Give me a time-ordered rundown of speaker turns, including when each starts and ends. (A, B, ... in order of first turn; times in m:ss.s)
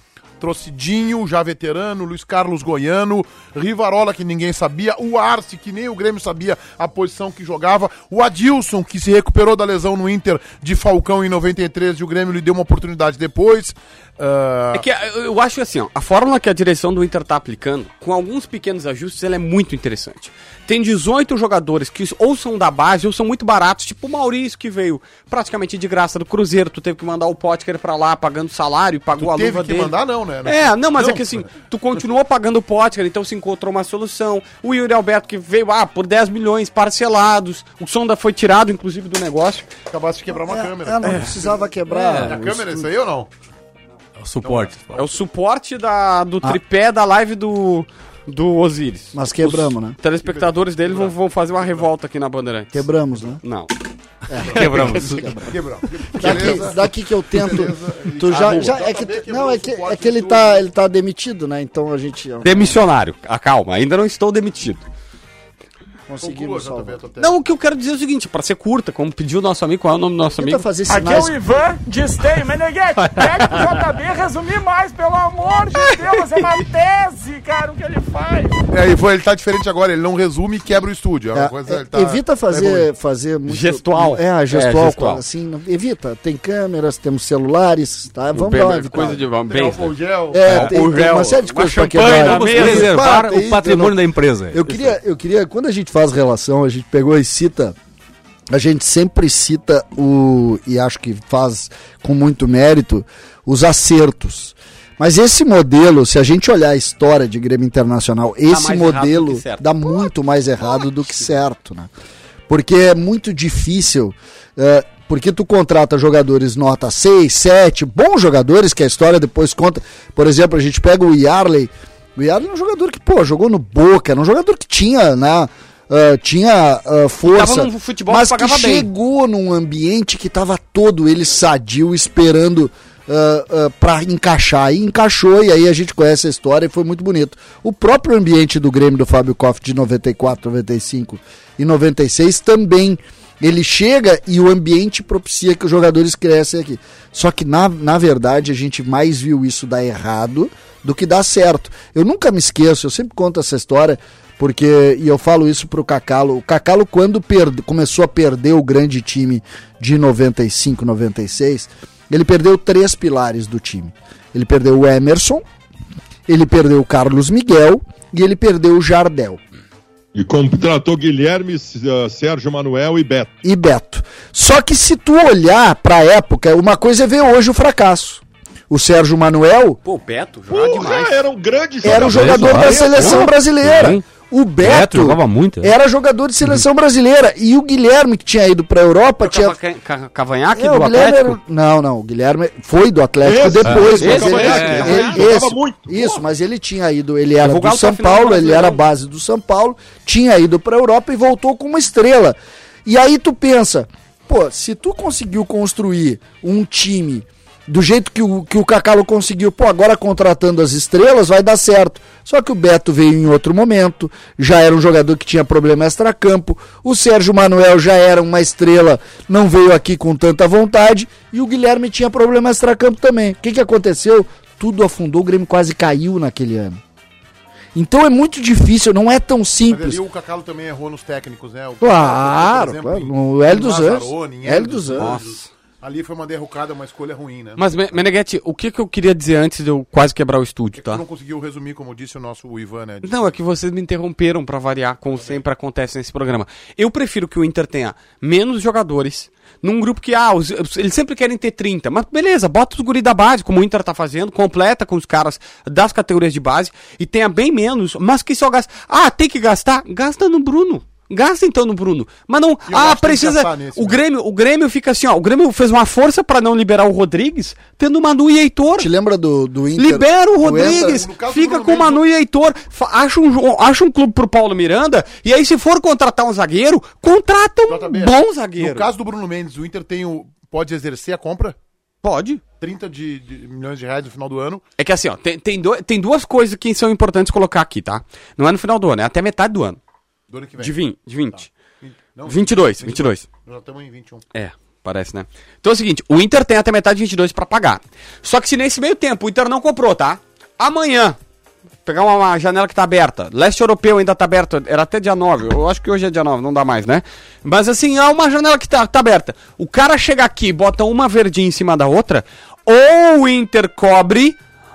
0:00.4-0:14.8 A
0:14.7-0:29.9 B
0:29.2-0:31.5 A
0:30.4-0:39.7 B
0:39.9-0:41.7 A
0:40.5-0:42.6 C
0:42.1-0:42.3 D
0:42.2-0:43.3 A
0:44.2-0:45.0 D
0:44.4-0:44.8 A
0:44.9-0:52.9 B
0:49.1-0:50.0 C
0:50.2-0:51.9 A
0:52.7-0:53.4 C
0:53.4-0:53.7 B
0:54.3-0:55.5 C
0:54.4-0:54.9 A
0:54.4-0:55.4 B
0:55.4-1:00.6 A
0:56.2-1:02.8 C
0:56.2-0:56.6 B
1:02.4-1:04.8 B
1:06.1-1:07.0 C
1:06.2-1:07.4 A
1:07.2-1:10.7 B
1:10.4-1:11.4 C
1:10.9-1:18.6 E
1:18.7-1:22.9 A
1:21.3-1:29.2 C
1:23.5-1:25.2 B
1:28.3-1:33.2 B
1:29.5-1:30.4 A
1:30.3-1:34.0 C
1:30.4-1:30.7 D
1:32.0-1:34.9 D
1:34.5-1:37.8 C
1:38.5-1:51.9 C
1:48.5-1:50.1 B
1:52.5-2:45.4 C
2:07.3-2:08.9 B
2:46.3-2:49.4 C
2:50.2-2:53.3 F
2:53.4-2:59.8 C
2:59.8-3:01.2 B
3:00.5-3:03.3 F
3:01.8-3:09.6 C
3:01.9-3:04.0 D
3:04.6-3:05.7 D
3:09.2-3:11.4 B
3:10.6-3:46.8 C
3:13.2-3:16.2 F
3:13.6-3:15.0 D
3:14.0-3:15.3 B
3:17.4-3:18.8 B
3:47.8-3:50.0 C
3:49.7-3:57.6 A
3:51.8-3:55.2 C
3:55.0-3:55.5 B
3:57.6-4:01.0 B
4:00.8-4:03.4 A
4:03.0-4:28.9 B
4:05.2-4:05.4 A
4:22.7-4:24.0 A
4:28.8-4:31.1 C
4:29.8-4:38.9 B
4:30.5-4:32.0 A
4:37.7-4:41.6 A
4:42.0-4:42.4 B
4:42.6-4:44.6 A
4:44.8-4:49.8 B
4:50.3-4:50.8 A
4:50.6-4:51.5 B
4:51.3-4:54.2 A
4:52.3-4:53.3 B
4:54.3-5:01.2 B
5:01.8-5:14.4 B